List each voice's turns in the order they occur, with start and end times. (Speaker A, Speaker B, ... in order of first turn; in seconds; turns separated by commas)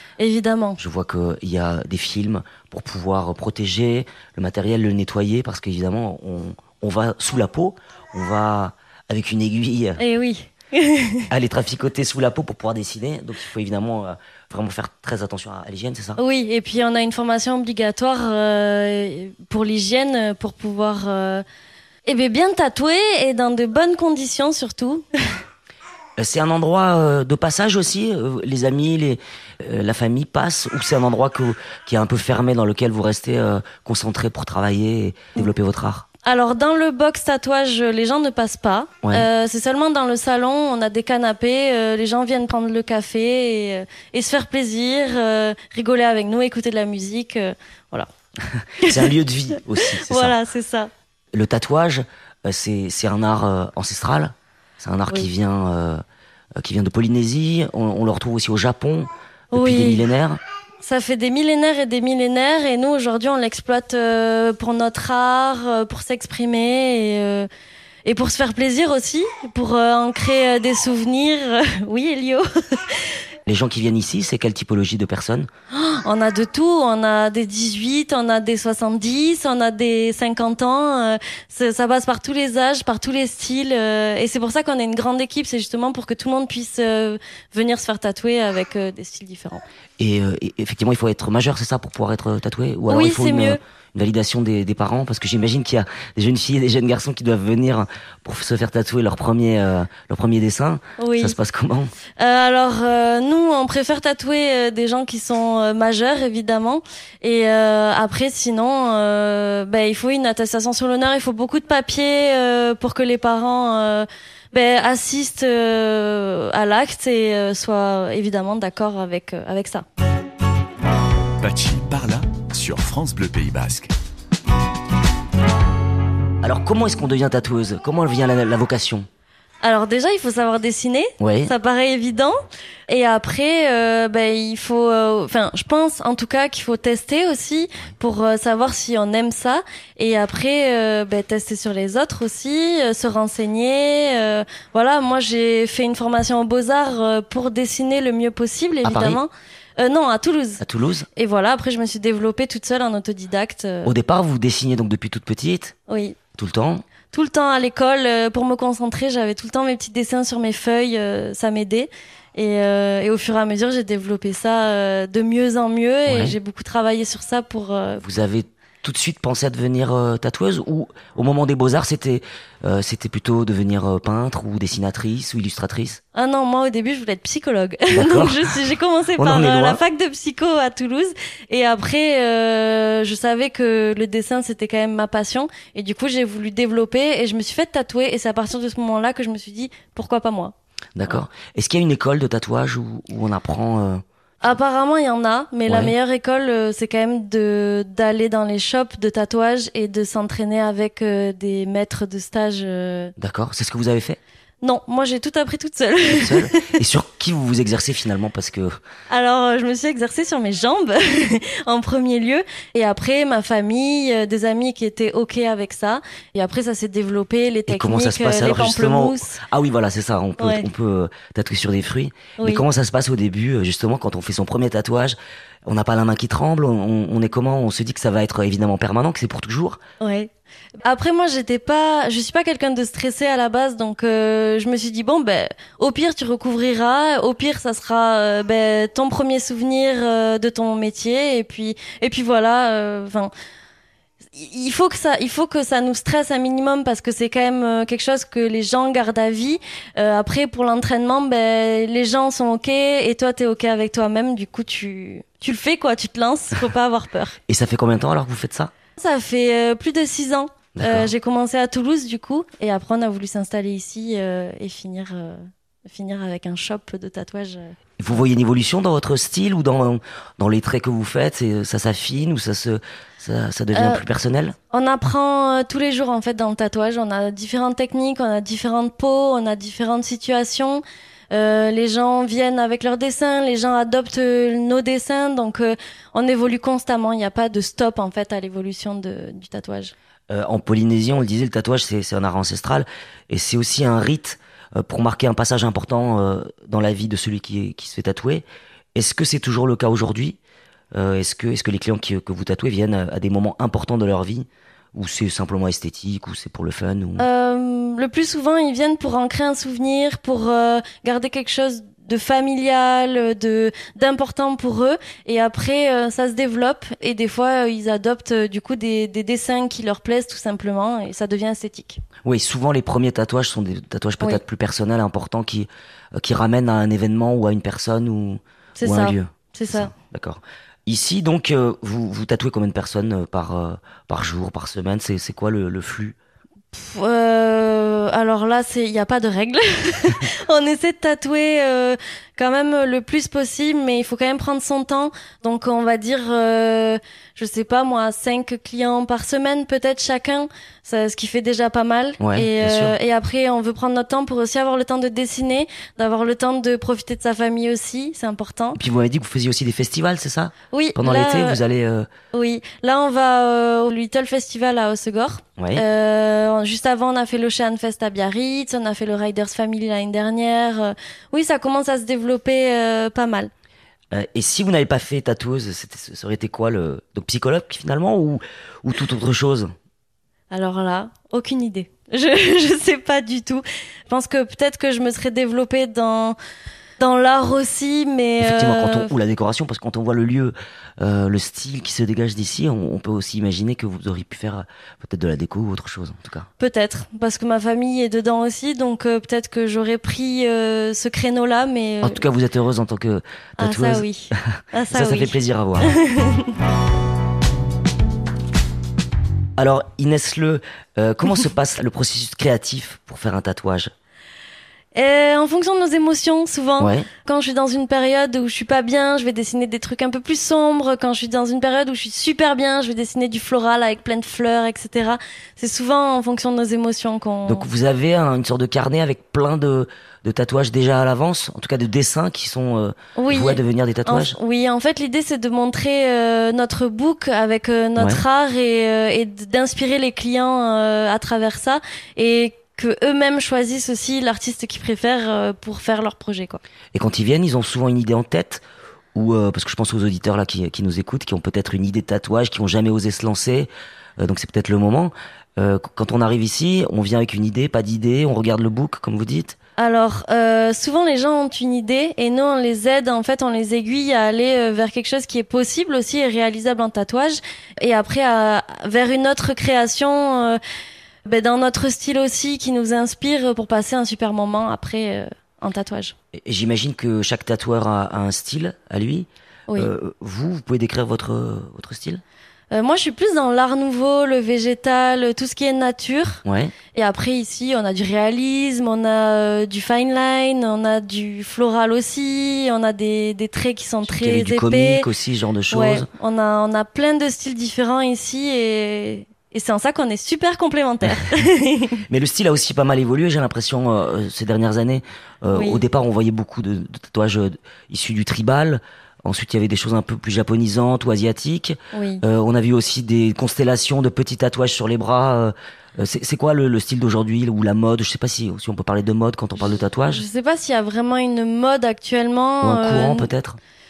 Speaker A: 0.2-0.8, Speaker B: 0.8-10.0, Speaker A: 10.0-11.3, Speaker B: 11.3-16.2, Speaker A: 16.2-21.4, Speaker A: 22.1-25.1, Speaker B: 26.2-36.0, Speaker A: 36.2-48.1, Speaker B: 39.0-39.3, Speaker B: 48.4-50.4, Speaker A: 48.8-49.1, Speaker A: 49.8-50.9, Speaker B: 51.3-56.0, Speaker B: 56.6-60.4, Speaker A: 59.5-60.0, Speaker A: 60.8-67.5, Speaker A: 68.0-73.2, Speaker B: 73.5-75.5, Speaker A: 75.7-89.6, Speaker B: 90.0-101.9, Speaker A: 92.9-93.6, Speaker A: 101.0-101.3, Speaker A: 102.2-119.8, Speaker C: 121.4-123.9, Speaker B: 126.4-129.1, Speaker A: 129.6-132.4, Speaker B: 131.2-131.5, Speaker A: 132.9-150.6, Speaker B: 148.8-149.2, Speaker B: 150.6-151.1, Speaker A: 151.2-153.9, Speaker B: 153.8-155.7, Speaker A: 155.9-156.2, Speaker B: 156.3-156.8, Speaker A: 157.1-168.0, Speaker B: 166.1-166.3, Speaker B: 168.0-176.0, Speaker A: 176.1-190.5, Speaker B: 177.9-178.6, Speaker B: 179.2-179.8, Speaker B: 190.9-194.0, Speaker A: 194.4-203.1, Speaker B: 195.7-195.9, Speaker B: 203.2-204.2, Speaker A: 204.6-206.8, Speaker B: 206.0-208.8, Speaker A: 209.1-219.4, Speaker B: 217.7-229.8, Speaker A: 220.4-220.7, Speaker A: 222.4-222.6, Speaker A: 230.0-230.3, Speaker A: 230.8-243.3, Speaker A: 244.3-257.4, Speaker B: 257.5-258.7, Speaker A: 259.0-267.7, Speaker B: 260.7-261.1, Speaker B: 268.0-274.6, Speaker A: 273.7-274.0, Speaker A: 274.7-289.9, Speaker B: 290.3-300.4, Speaker B: 300.9-307.3, Speaker A: 307.2-322.0, Speaker B: 322.2-336.1, Speaker A: 328.8-329.9, Speaker A: 336.7-358.8, Speaker B: 352.2-353.0, Speaker B: 358.7-362.1, Speaker A: 360.7-361.6, Speaker A: 362.3-373.5, Speaker B: 365.6-365.8, Speaker B: 374.1-379.7, Speaker A: 380.5-386.4, Speaker A: 387.0-389.1, Speaker B: 388.4-396.5, Speaker A: 396.6-402.2, Speaker B: 402.0-405.9, Speaker A: 403.6-406.5, Speaker B: 409.6-413.9, Speaker A: 414.9-427.7, Speaker B: 416.8-417.1, Speaker B: 427.4-434.4, Speaker A: 433.1-446.6, Speaker B: 438.0-438.2, Speaker B: 446.9-448.6, Speaker B: 449.1-459.6, Speaker A: 459.8-470.6, Speaker A: 471.2-476.1, Speaker B: 476.3-482.2, Speaker A: 482.7-486.4, Speaker B: 486.4-486.7, Speaker A: 486.9-495.1, Speaker B: 494.0-496.1, Speaker A: 495.7-502.0, Speaker B: 502.1-520.2, Speaker A: 505.5-505.8, Speaker A: 511.9-512.2, Speaker A: 520.1-523.3, Speaker B: 522.6-523.6